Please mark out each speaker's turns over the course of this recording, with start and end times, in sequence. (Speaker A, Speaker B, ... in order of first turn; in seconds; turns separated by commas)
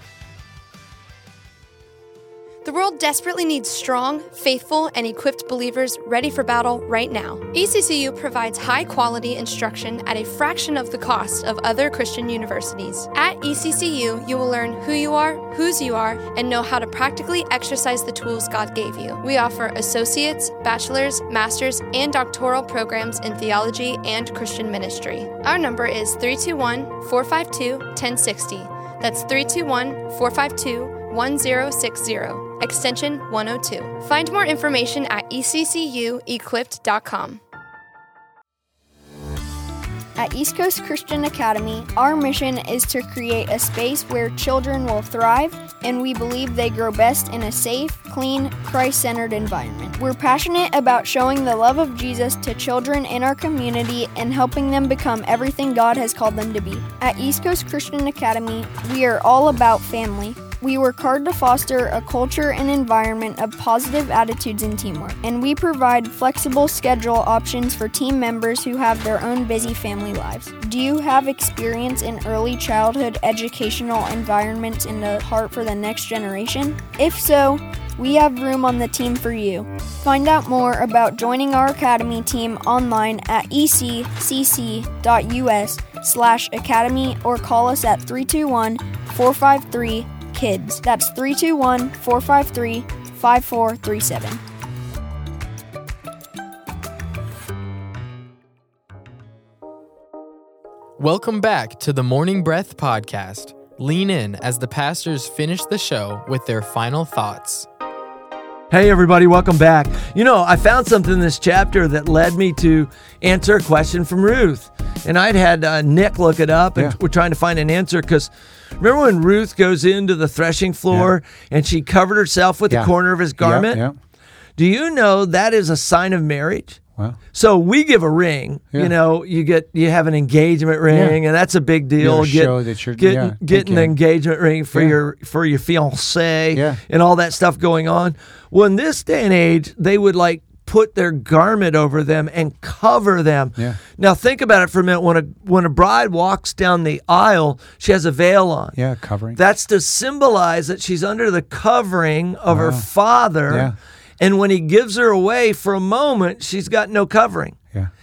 Speaker A: 2.6-37.4, Speaker B: 40.2-94.4, Speaker C: 101.0-107.7, Speaker D: 108.7-123.8, Speaker E: 122.7-123.9, Speaker D: 124.6-126.8, Speaker D: 127.3-148.8, Speaker E: 130.9-131.2, Speaker E: 132.0-133.9, Speaker E: 136.5-136.8, Speaker E: 148.7-149.4, Speaker D: 149.3-157.6, Speaker E: 152.5-152.9, Speaker E: 153.5-153.7